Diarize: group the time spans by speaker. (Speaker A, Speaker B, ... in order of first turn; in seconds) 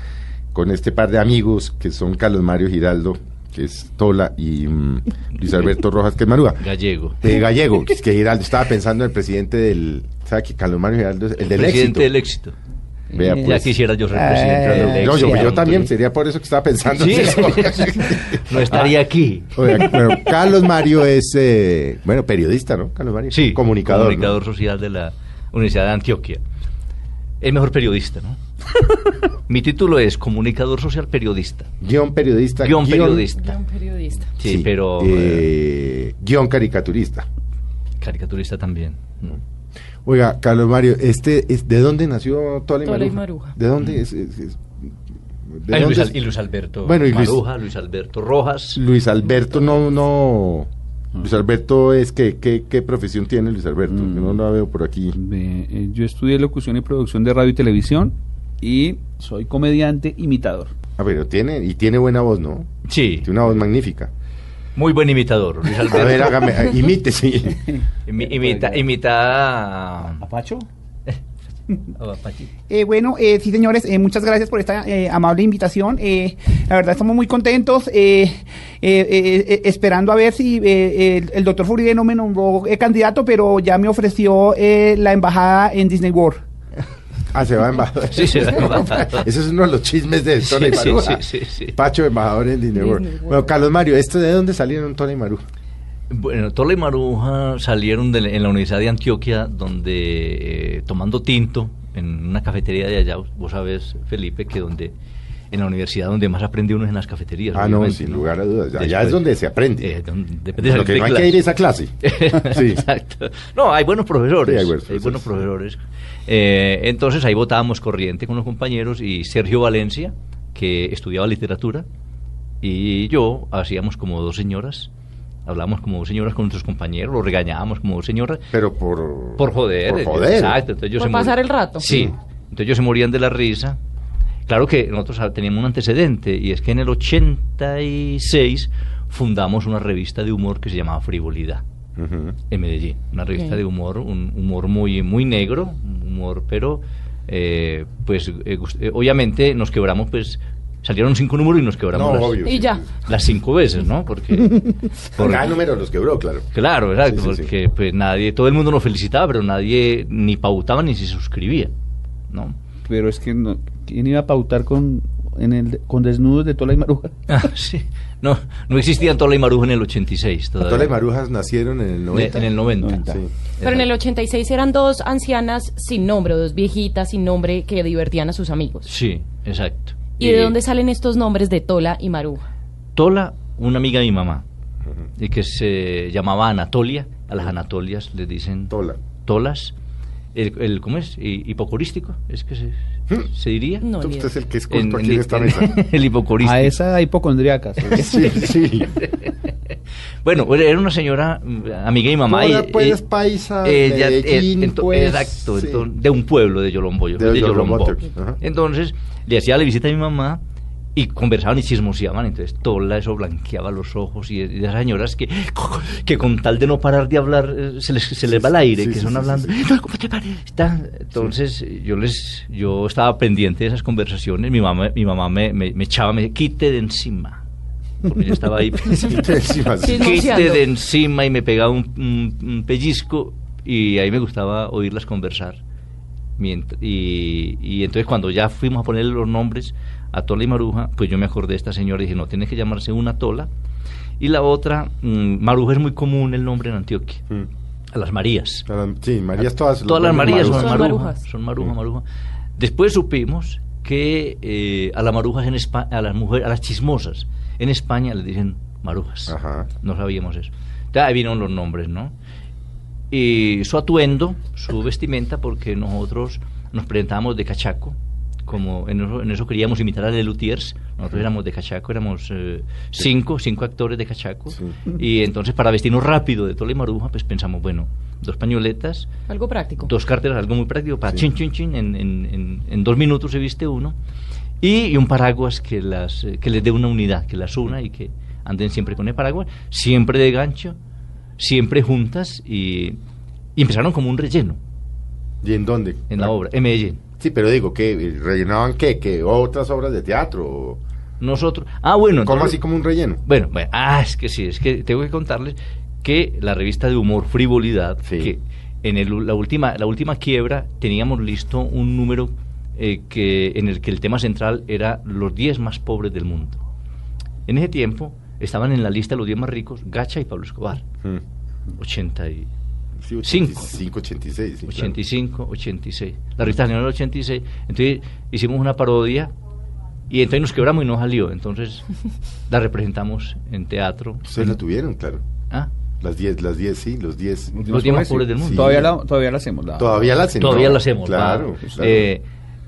Speaker A: 0.5-6.7, 7.2-12.1, 13.1-13.7, 14.7-18.9, 19.5-24.4, 31.8-33.3, 34.4-37.2, 40.0-44.9, 45.5-46.1, 46.8-47.4, 48.8-55.1, 61.0-62.7, 63.2-64.1, 65.9-67.7, 87.3-95.4, 107.5-109.9, 110.6-112.8, 114.4-115.4, 128.5-130.6, 131.8-132.1, 142.0-142.4, 151.9-152.9, 155.2-156.5, 157.0-157.5, 170.6-172.5, 188.7-189.0, 193.9-195.7, 197.8-198.9, 202.3-205.8, 207.2-208.4, 218.3-219.5, 228.9-230.3, 248.7-250.9, 259.3-259.7, 295.4-296.3, 297.2-300.8, 302.2-303.2, 308.0-308.3, 323.0-325.0, 334.2-335.2, 336.0-337.6, 338.4-338.9, 339.8-342.1
Speaker B: 6.6-7.2, 11.5-12.5, 13.4-15.9, 16.9-20.0, 23.3-26.4, 27.4-28.4, 29.5-31.7, 32.6-33.5, 34.4-35.5, 38.0-39.4, 45.7-48.8, 62.9-63.3, 64.8-66.5, 68.0-70.2, 71.9-72.5, 88.1-89.2, 90.4-91.7, 96.1-104.9, 105.5-109.2, 109.8-111.4, 112.0-121.8, 122.6-124.9, 125.4-128.5, 129.4-133.8, 134.5-141.6, 142.5-152.4, 153.1-155.5, 156.5-161.7, 162.3-162.6, 167.3-170.9, 172.1-173.9, 178.8-180.6, 182.9-184.4, 185.2-188.7, 189.2-189.7, 190.3-193.8, 194.7-196.8, 198.9-199.3, 200.2-203.0, 203.6-210.4, 210.9-227.4, 228.0-229.2, 230.0-235.6, 236.4-243.5, 244.2-247.2, 247.9-248.7, 249.4-252.0, 252.6-262.1, 263.1-279.1, 279.9-283.9, 284.6-290.8, 291.4-293.0, 293.6-294.6, 296.1-297.0, 301.2-302.6, 303.2-316.6, 317.4-320.8, 321.8-322.5, 323.2-323.7, 324.7-329.3, 330.1-331.8, 332.5-334.6, 337.7-338.7, 340.4-342.2
Speaker C: 13.1-15.7, 53.9-54.4, 55.1-60.7, 68.2-68.9, 70.2-70.7, 162.9-167.1, 172.2-173.2, 196.4-198.4, 337.5-340.1, 341.6-341.9
Speaker D: 33.4-34.3, 42.8-43.5, 92.8-93.5, 130.9-131.8, 143.3-143.6, 152.4-152.9, 173.6-178.9, 180.1-182.4, 193.8-194.3, 229.8-230.7, 250.1-251.2, 279.3-279.9
Speaker E: 72.7-86.4